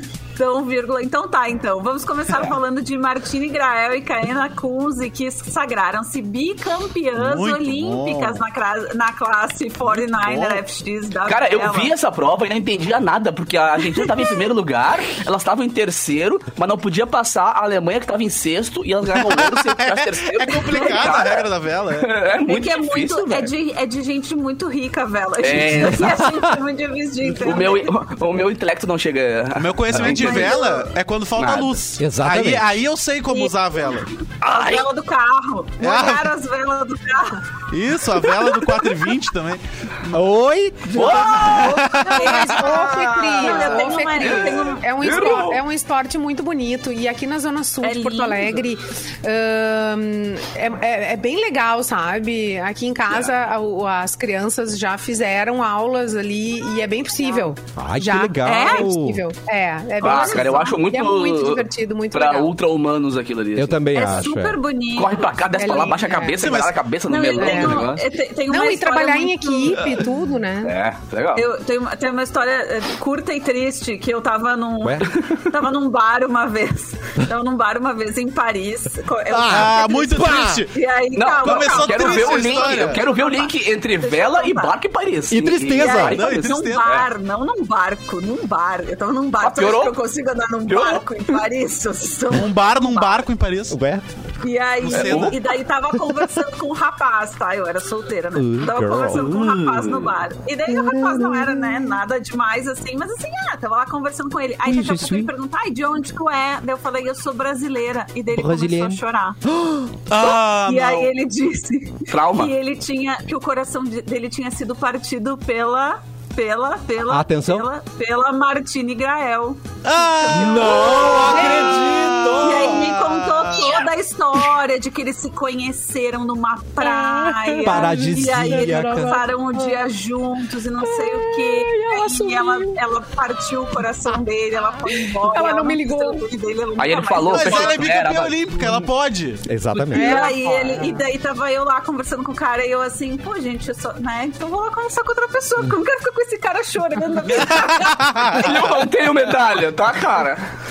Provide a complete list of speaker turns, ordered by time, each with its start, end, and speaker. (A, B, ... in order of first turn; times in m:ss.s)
0:00.4-0:11.9 A
0:07.2-0:08.4 B
0:09.8-0:10.6 B
0:11.3-0:21.4 C
0:19.1-0:22.1 B
0:20.7-0:21.3 A
0:22.0-0:23.5 C
0:22.5-0:27.9 A
0:25.4-0:26.2 C
0:25.9-0:26.6 D
0:27.2-0:30.6 C
0:29.6-0:34.1 B
0:30.0-0:30.9 A
0:31.4-0:31.8 C
0:32.0-0:32.8 D
0:33.3-0:37.6 A
0:34.4-0:34.9 C
0:35.8-0:36.3 B
0:37.7-0:40.2 B
0:40.1-0:41.6 D
0:40.9-0:41.8 C
0:41.0-0:44.9 A
0:41.0-0:42.5 B
0:42.2-1:02.5 E
0:42.9-0:45.6 C
0:47.8-0:48.6 A
0:57.8-0:59.2 D
0:58.4-0:58.9 A
1:00.0-1:00.8 A
1:00.0-1:04.0 C
1:03.6-1:04.6 D
1:03.9-1:05.4 A
1:05.0-1:08.0 C
1:05.6-1:06.4 E
1:06.4-1:06.8 B
1:07.1-1:09.9 A
1:07.3-1:07.9 E
1:08.5-1:10.7 E
1:10.6-1:11.4 C
1:11.3-1:24.8 A
1:19.3-1:20.6 D
1:19.5-1:20.8 B
1:21.1-1:27.1 C
1:21.4-1:23.0 B
1:25.3-1:26.2 D
1:25.8-1:33.3 A
1:26.0-1:27.0 B
1:29.4-1:30.0 C
1:30.7-1:31.2 C
1:32.3-1:33.8 B
1:33.7-1:34.0 D
1:34.4-1:49.4 A
1:34.8-1:35.4 B
1:34.9-1:35.4 C
1:38.3-1:39.4 D
1:39.1-1:40.2 C
1:40.7-1:41.8 D
1:44.6-1:45.3 D
1:48.3-1:49.9 D
1:50.1-1:51.1 B
1:50.2-2:17.9 A
1:52.1-1:52.5 C
1:57.1-1:57.7 D
1:59.8-2:03.8 B
2:00.4-2:02.5 D
2:06.8-2:09.9 E
2:07.6-2:09.2 D
2:10.8-2:12.8 E
2:14.8-2:16.2 E
2:16.8-2:18.4 C
2:17.3-2:19.4 B
2:19.4-2:20.3 D
2:19.9-2:21.0 E
2:19.9-2:28.7 A
2:27.5-2:28.7 B
2:28.4-2:30.5 C